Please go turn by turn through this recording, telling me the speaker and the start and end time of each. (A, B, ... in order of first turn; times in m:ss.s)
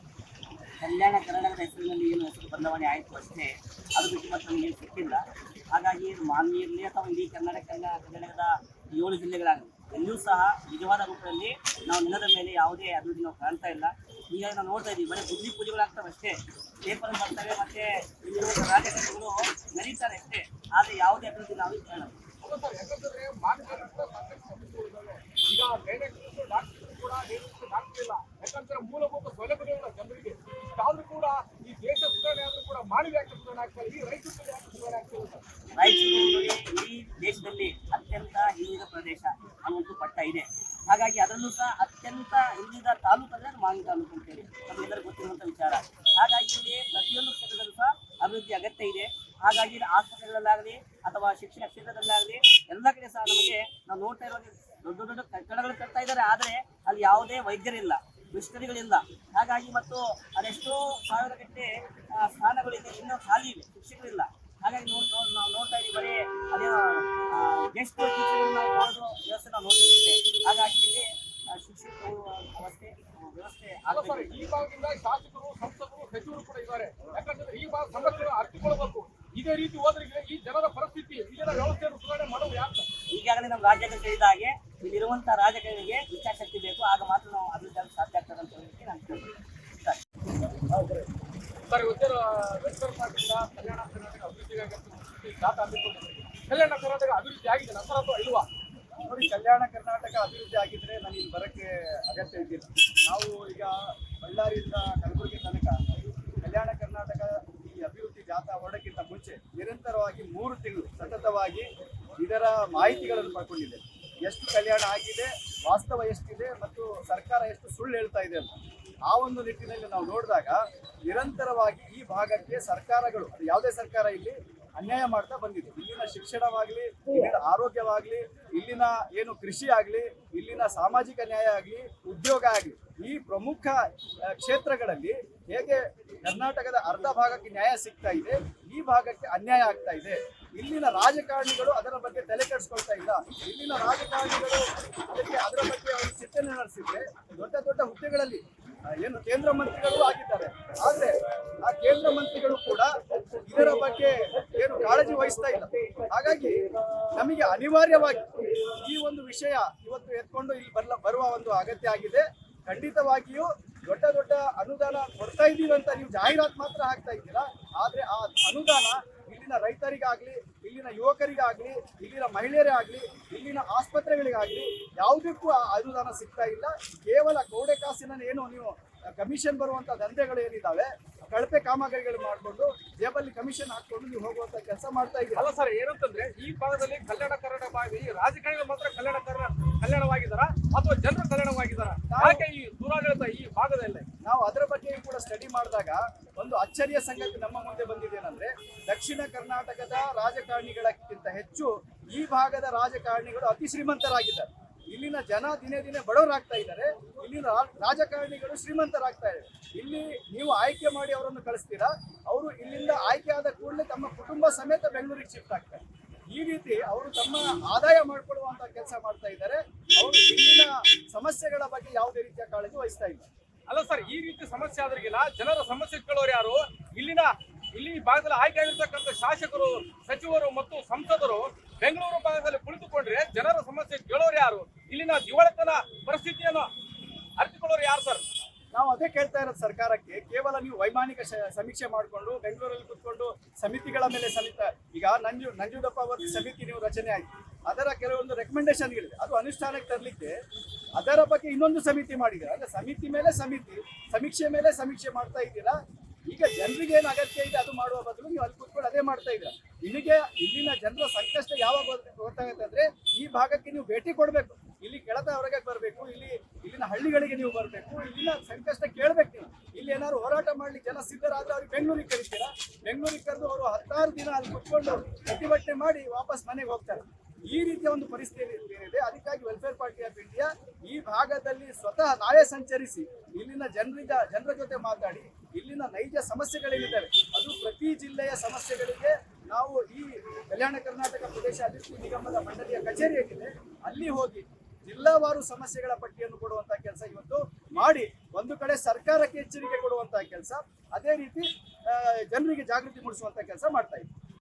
0:00.8-0:22.2 A
0:22.4-0:35.4 B
0:35.8-1:14.5 A
1:13.9-1:22.9 B
1:23.1-1:30.0 A
1:30.8-1:31.0 C
1:31.7-1:38.5 B
1:39.1-1:45.8 C
1:46.4-1:51.7 C
1:52.2-1:58.5 C
1:59.1-2:13.8 C
2:14.3-2:28.4 C
2:29.0-2:32.9 C
2:33.5-2:36.6 C
2:35.5-2:35.9 A
2:37.2-3:05.4 C
3:05.4-3:14.1 B
3:12.1-3:12.4 C
3:14.2-3:43.3 C
3:43.7-3:56.7 B
3:57.4-3:58.2 B
3:58.7-4:10.3 C
4:11.0-4:15.8 C
4:16.3-5:04.1 C